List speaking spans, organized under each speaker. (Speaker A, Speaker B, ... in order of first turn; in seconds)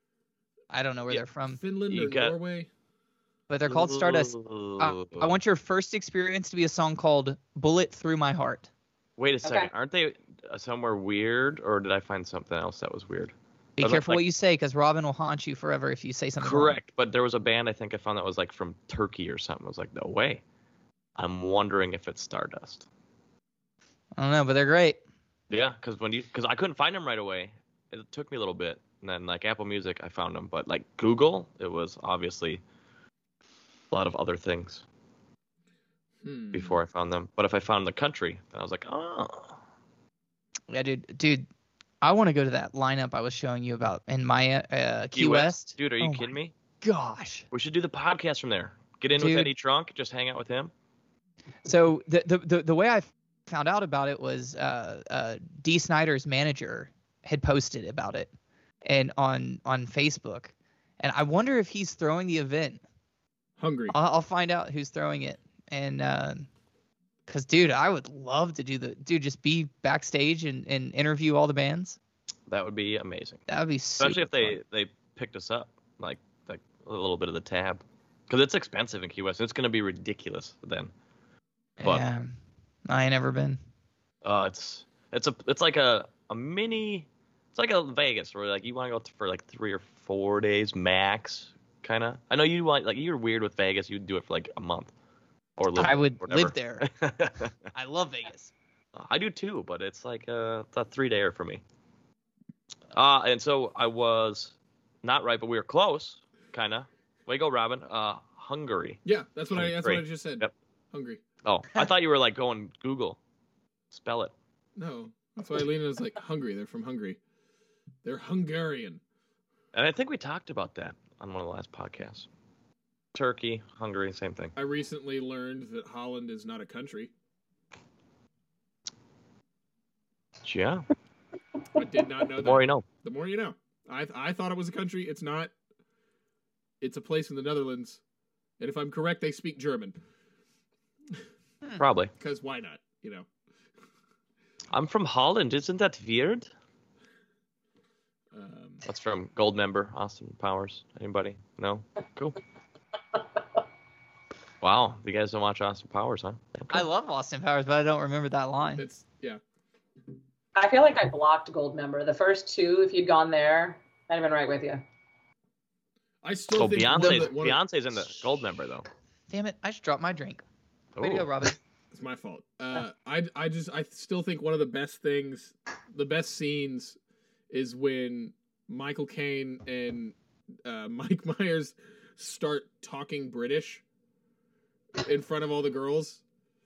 Speaker A: 0.7-1.6, 3.5-8.7, 13.8-16.8, 24.2-25.0, 40.7-41.5, 42.0-47.5, 49.1-49.5, 51.6-58.3, 58.9-62.8, 63.9-66.5, 67.3-72.0, 73.5-74.6, 81.8-83.6, 95.8-96.9, 97.7-98.5, 156.7-158.8, 167.0-167.3, 169.3-170.4, 171.0-171.6
Speaker B: 1.4-2.7, 36.2-36.8, 63.6-64.0, 109.0-111.2, 114.8-117.2, 118.0-119.0, 124.6-127.1, 131.8-135.5, 136.8-138.0, 138.6-140.0, 142.2-143.3, 148.3-148.8, 158.8-159.4, 166.2-167.6, 171.9-177.0, 177.5-183.8, 185.0-186.2
Speaker C: 1.9-2.4, 3.7-5.3, 9.2-14.2, 16.4-20.4, 21.2-22.9, 25.5-32.6, 33.9-34.8, 36.5-39.6, 45.1-46.5, 47.5-50.7, 72.5-73.4, 74.0-80.9, 84.2-94.9, 95.6-97.5, 99.0-101.6, 102.9-109.0, 109.5-110.5, 111.4-113.2, 113.9-114.3, 119.7-122.3, 123.1-124.5, 130.4-130.9, 132.4-132.8, 141.8-142.1, 144.7-146.5, 148.8-152.4, 154.6-156.8, 166.5-168.9, 171.0-171.3
Speaker D: 9.4-9.7, 160.6-164.8